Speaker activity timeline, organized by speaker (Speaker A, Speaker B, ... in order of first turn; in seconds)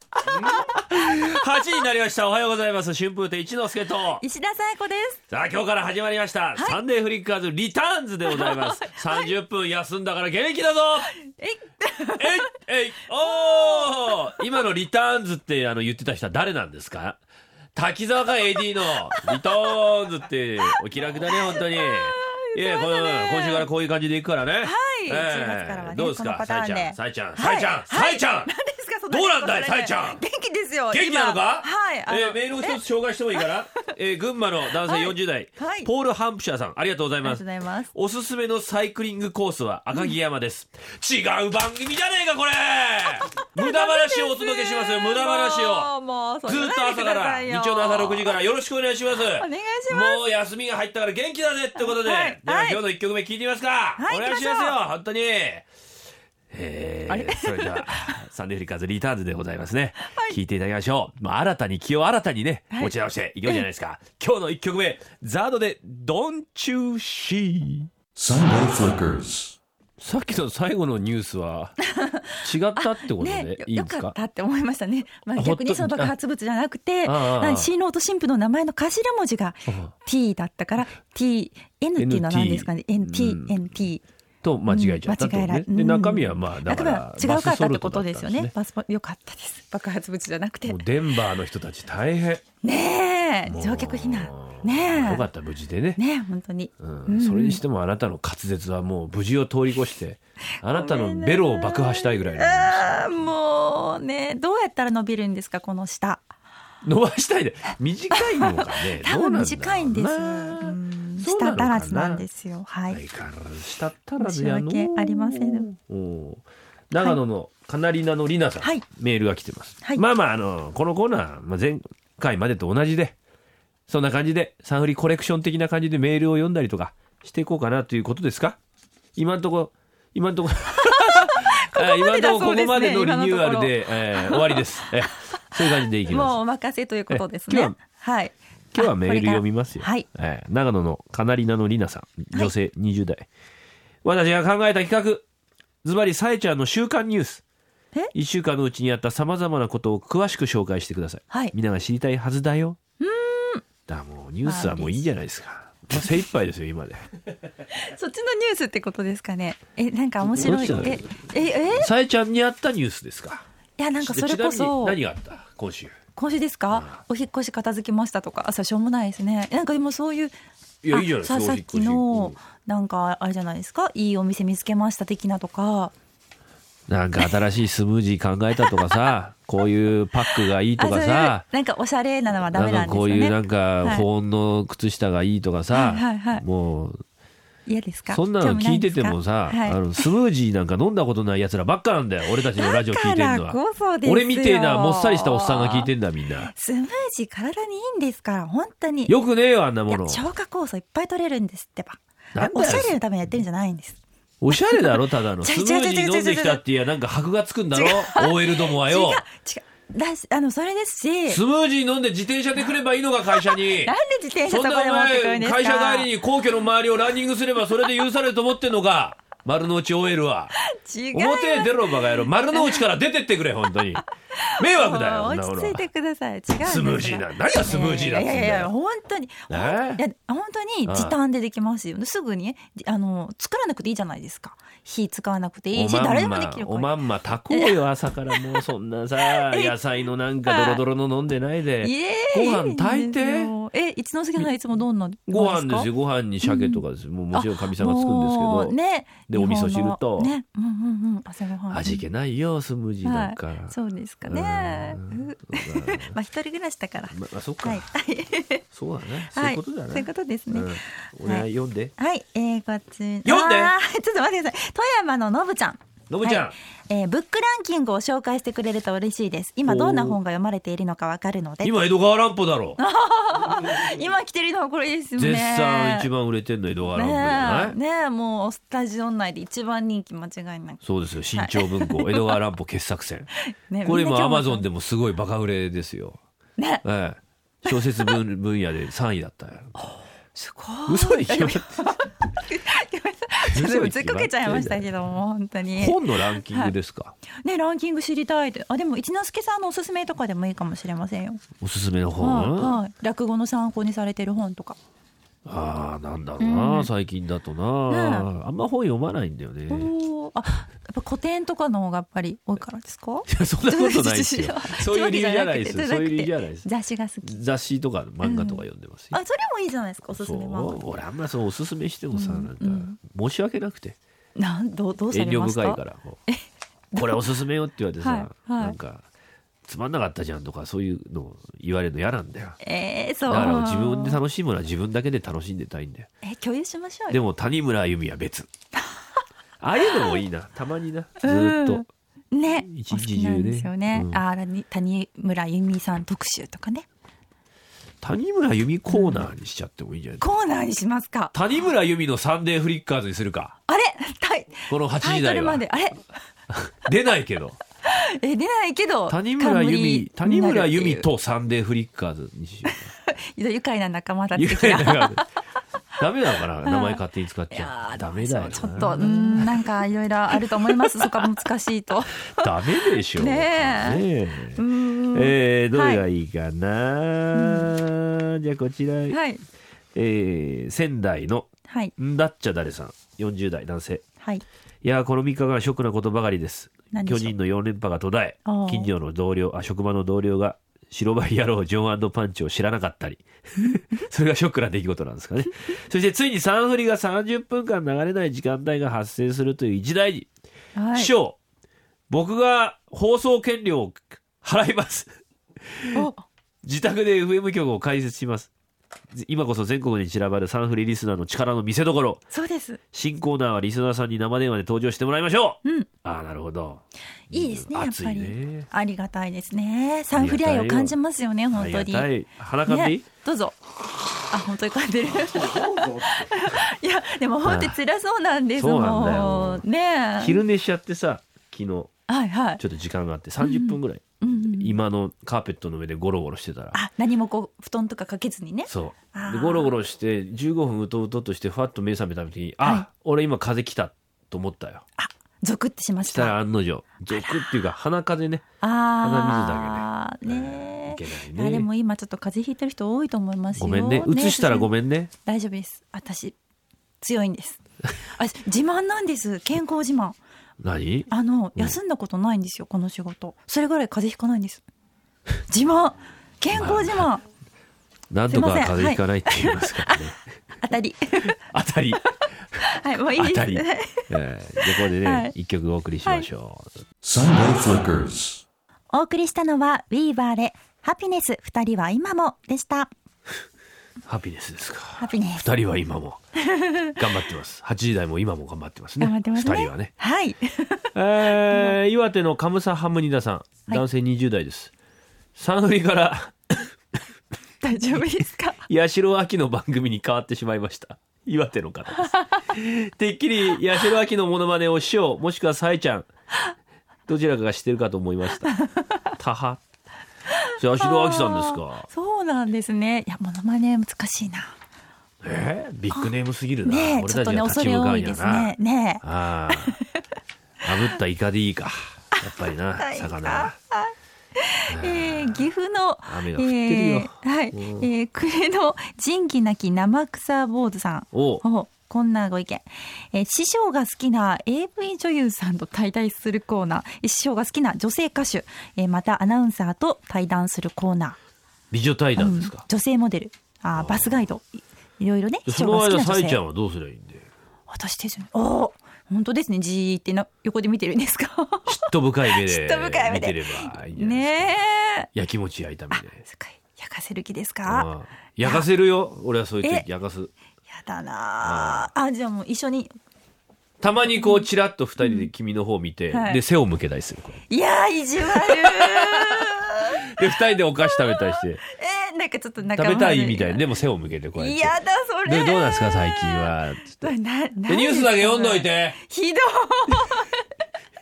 Speaker A: 0.2-1.2, 4.2-5.2, 8.3-9.3, 11.1-12.5, 13.3-14.2, 19.2-19.7, 21.2-23.7, 24.6-32.8, 33.4-33.8, 34.8-35.9, 37.2-37.9, 43.5-48.4, 49.3-50.2, 51.8-52.8, 54.0-54.8, 57.1-57.9, 60.0-60.4, 71.8-84.0, 84.7-90.9, 92.6-95.3, 96.0-97.6, 100.7-106.3, 108.1-113.0, 114.2-115.7, 130.9-140.1, 153.0-153.6, 154.4-155.1, 157.7-161.9, 163.8-165.0, 166.2-170.3, 170.9-175.9, 180.8-184.1, 185.7-186.4, 187.7-190.0, 192.6-195.9, 196.5-199.2, 199.9-204.0, 204.5-206.6, 207.8-211.4, 213.3-216.1, 220.6-222.8, 224.4-236.9, 237.5-237.8, 238.3-238.6, 239.3-239.8, 240.5-240.8, 241.8-245.9, 246.4-252.0, 253.0-258.6, 259.3-261.4, 262.0-271.7, 272.8-276.1, 276.9-280.8, 281.4-282.3, 283.5-284.6, 286.6-286.8, 287.7-288.2, 289.8-296.7, 297.3-301.4, 302.2-304.8, 306.4-306.9, 307.9-308.3, 309.7-317.4, 318.2-321.0, 322.1-323.0, 324.4-326.4, 327.0-327.2, 328.0-328.8, 332.6-334.2, 336.2-337.2, 339.9-340.2, 341.2-346.9, 348.9-349.3, 350.2-351.3, 353.7-356.0, 357.8-361.1, 362.7-365.2, 366.6-376.0, 377.4-377.7, 379.1-379.4, 381.7-381.9, 386.9-387.4, 388.5-388.9, 400.8-401.1, 405.9-406.2, 412.3-412.8, 417.3-422.1, 422.6-423.6, 424.2-430.4, 432.1-432.6, 433.4-434.8, 436.7-439.7, 445.0-446.4, 447.1-447.6, 448.6-456.4, 457.0-457.6, 458.1-460.2, 461.1-464.6, 465.5-467.2, 468.3-470.0, 470.6-471.4, 472.6-474.1, 474.6-475.3, 478.9-482.9, 485.0-485.5, 486.4-487.0, 489.0-490.9, 491.5-491.8, 497.6-498.7, 508.4-509.0, 510.8-514.5, 516.6-520.0, 522.8-541.2, 542.2-546.4, 547.7-555.1, 555.9-557.9, 560.7-562.9, 565.0-565.3, 566.1-566.4, 567.5-570.2, 570.8-573.7, 574.4-580.4
Speaker B: 0.3-4.2, 5.3-11.1, 12.2-17.2, 17.8-28.5, 29.1-30.2, 30.9-45.9, 46.5-55.7, 56.5-67.9, 70.0-71.8, 72.4-74.2, 75.4-76.1, 77.0-77.7, 79.7-79.9, 82.0-83.6, 84.4-88.5, 90.7-92.5, 93.5-96.0, 96.8-103.3, 106.8-112.2, 112.9-123.2, 123.9-128.6, 129.2-136.4, 137.1-137.8, 138.7-143.3, 144.0-145.2, 145.8-147.4, 148.1-152.8, 153.9-157.1, 160.2-163.5, 164.0-166.0, 166.7-167.0, 170.8-172.4, 176.9-181.4, 182.5-187.0, 188.1-196.5, 199.1-200.2, 202.3-203.0, 204.4-209.2, 211.3-213.9, 214.5-220.5, 221.1-224.0, 224.6-225.8, 226.5-228.7, 229.5-230.0, 230.9-231.2, 235.7-243.5, 245.3-248.8, 249.3-250.3, 251.7-256.1, 257.1-257.9, 258.7-261.9, 263.2-263.7, 266.1-266.6, 269.7-270.2, 271.6-272.8, 275.2-277.8, 280.8-283.3, 283.9-286.2, 286.8-289.7, 290.9-291.7, 293.5-294.9, 295.7-297.2, 301.6-302.8, 305.5-309.9, 313.3-316.6, 317.2-319.2, 320.1-324.0, 325.1-326.2, 326.9-329.1, 329.7-332.6, 333.3-336.1, 337.1-338.5, 339.6-341.9, 342.6-344.2, 348.0-350.2, 351.3-353.6, 354.7-355.6, 356.5-357.6, 359.1-362.9, 364.4-365.2, 366.0-369.7, 370.4-371.3, 372.4-379.2, 379.9-384.0, 384.8-400.3, 400.9-401.4, 402.1-405.1, 405.7-406.1, 406.6-408.5, 409.1-412.2, 412.9-418.7, 420.2-420.9, 421.5-423.1, 427.4-427.8, 428.6-429.6, 430.2-431.9, 432.6-436.8, 438.7-444.8, 446.1-448.4, 449.0-451.7, 453.6-455.1, 460.6-461.8, 466.5-467.1, 468.1-470.2, 471.3-472.0, 473.2-476.7, 484.1-486.2, 486.9-489.9, 490.9-494.7, 495.4-496.7, 498.7-506.1, 507.1-508.5, 509.2-509.6, 510.6-511.9, 515.2-519.8, 520.6-523.5, 524.7-525.5, 526.1-527.9, 531.1-531.4, 541.7-542.6, 543.8-544.2, 545.5-547.3, 551.7-554.5, 555.1-556.2, 557.7-560.3, 561.4-561.9, 563.8-567.4, 568.2-569.5, 570.1-571.6, 572.7-574.8, 575.3-577.1, 577.7-579.0
Speaker C: 68.2-69.6, 477.0-478.4